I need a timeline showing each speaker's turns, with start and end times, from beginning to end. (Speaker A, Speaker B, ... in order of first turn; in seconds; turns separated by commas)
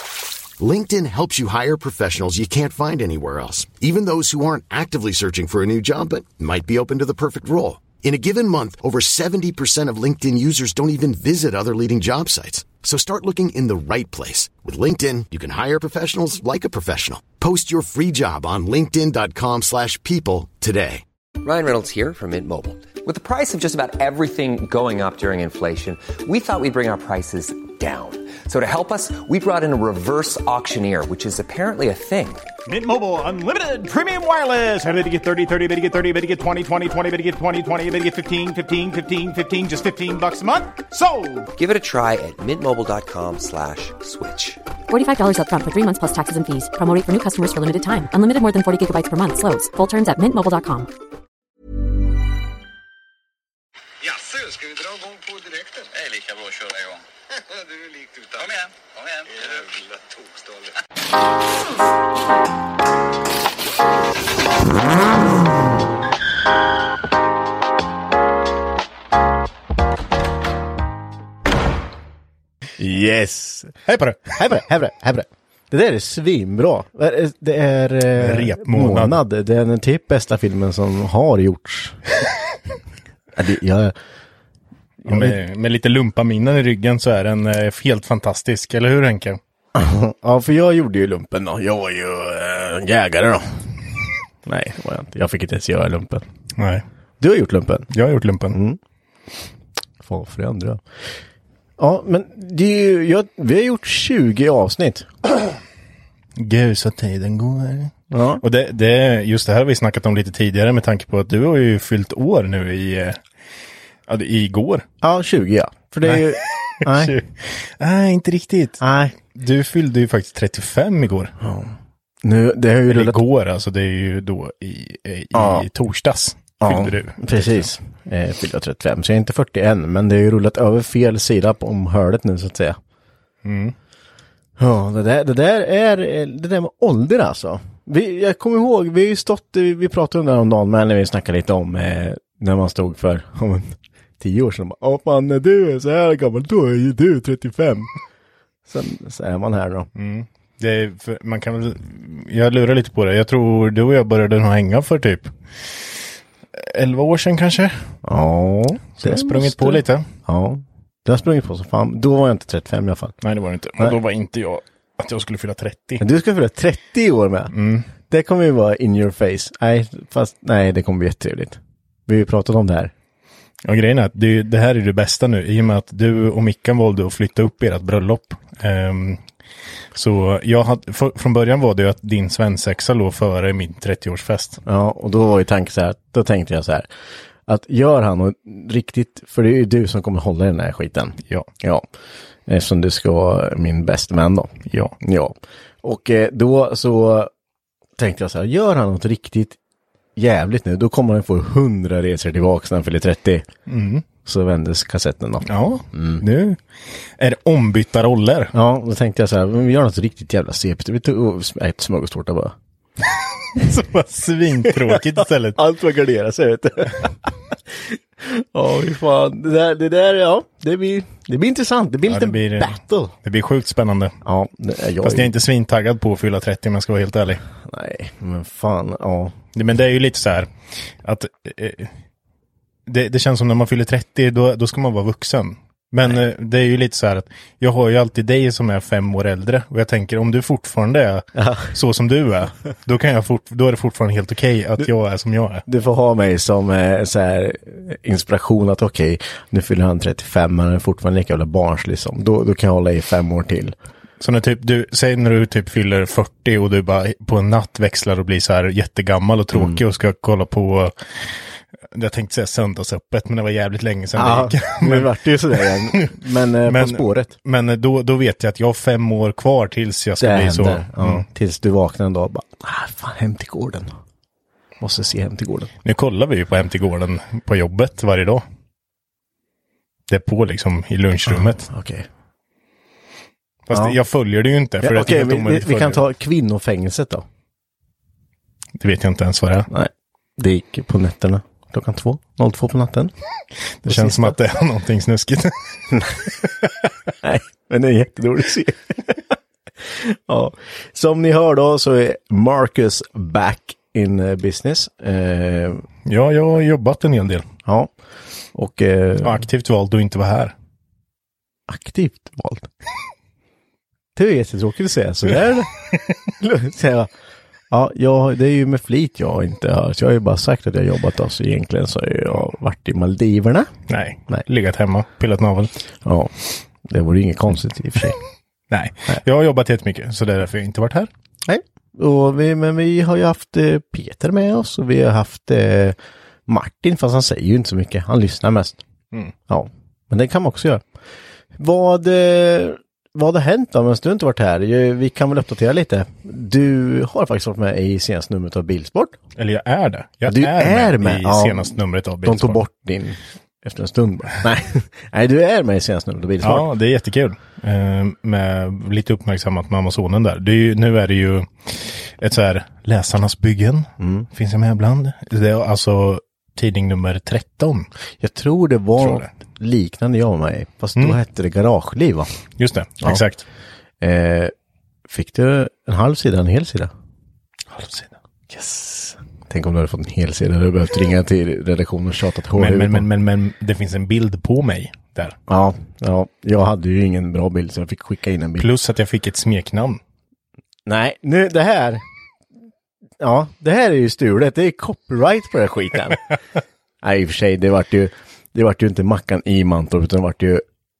Speaker A: 0.6-21.0, Speaker B: 21.4-32.5, Speaker C: 32.6-41.5, Speaker B: 41.5-44.6, Speaker D: 44.9-50.9, Speaker E: 54.0-60.7, Speaker F: 72.8-73.7, Speaker G: 73.9-74.4, Speaker F: 74.4-82.0, Speaker G: 78.2-79.2, Speaker F: 83.3-84.0, Speaker F: 85.0-85.4, Speaker G: 85.0-89.4, Speaker F: 89.7-93.7, Speaker F: 94.4-96.2, Speaker G: 96.6-96.8, Speaker F: 97.2-97.9, Speaker G: 97.9-98.6, Speaker F: 98.5-98.8, Speaker F: 100.0-100.8, Speaker F: 101.8-105.1, Speaker G: 106.3-113.2, Speaker F: 108.1-108.4, Speaker G: 114.1-114.8, Speaker F: 115.0-117.2, Speaker G: 116.0-118.8, Speaker F: 118.8-119.2, Speaker G: 119.3-121.3, Speaker F: 121.4-123.2, Speaker G: 122.9-127.7, Speaker F: 125.3-125.7, Speaker F: 126.6-132.8, Speaker G: 133.4-133.7, Speaker F: 134.6-147.9, Speaker F: 148.7-149.9, Speaker G: 149.9-156.0, Speaker G: 156.5-157.9, Speaker F: 158.0-163.2, Speaker G: 159.0-160.1, Speaker G: 163.2-166.0, Speaker F: 166.0-167.5, Speaker G: 167.5-167.9, Speaker F: 168.1-172.9, Speaker G: 173.6-179.2, Speaker G: 179.9-184.6, Speaker F: 184.7-186.9, Speaker F: 187.5-191.9, Speaker F: 192.4-197.3, Speaker F: 198.0-199.6, Speaker F: 200.2-203.4, Speaker G: 203.7-204.1, Speaker F: 204.2-206.2, Speaker G: 205.5-206.6, Speaker G: 207.2-208.5, Speaker F: 208.5-212.5, Speaker G: 213.5-215.6, Speaker F: 214.7-223.1, Speaker G: 222.1-224.1, Speaker F: 224.2-225.3, Speaker G: 225.0-227.4, Speaker F: 227.6-229.3, Speaker G: 229.5-230.5, Speaker G: 231.0-231.9, Speaker G: 232.9-245.6, Speaker F: 241.4-241.7, Speaker F: 245.7-253.8, Speaker G: 254.2-261.4, Speaker F: 259.5-259.8, Speaker G: 261.9-271.2, Speaker F: 264.1-267.3, Speaker F: 270.2-273.9, Speaker F: 274.8-275.7, Speaker G: 275.8-278.4, Speaker G: 280.1-281.7, Speaker F: 281.7-282.1, Speaker G: 283.7-286.0, Speaker F: 284.8-287.2, Speaker G: 288.8-289.7, Speaker F: 289.7-293.1, Speaker G: 293.8-295.9, Speaker F: 293.8-294.4, Speaker F: 295.9-296.3, Speaker F: 297.2-305.9, Speaker G: 306.1-307.4, Speaker F: 308.5-309.4, Speaker G: 309.2-310.5, Speaker F: 311.7-312.7, Speaker F: 314.1-317.1, Speaker F: 317.7-323.7, Speaker G: 323.9-325.7, Speaker F: 326.0-326.3, Speaker F: 326.8-328.2, Speaker G: 328.7-331.1, Speaker F: 331.4-338.8, Speaker F: 339.5-340.8, Speaker F: 341.6-349.2, Speaker G: 349.4-352.6, Speaker F: 350.2-356.7, Speaker G: 356.4-367.9, Speaker F: 364.0-364.3, Speaker F: 368.2-372.3, Speaker G: 369.0-369.3, Speaker G: 372.6-373.4, Speaker F: 374.0-374.5, Speaker F: 375.1-376.9, Speaker G: 377.7-378.1, Speaker F: 378.5-383.1, Speaker G: 382.5-385.4, Speaker F: 385.5-388.7, Speaker G: 388.6-390.0, Speaker F: 390.9-392.0, Speaker F: 393.2-396.2, Speaker F: 397.0-400.6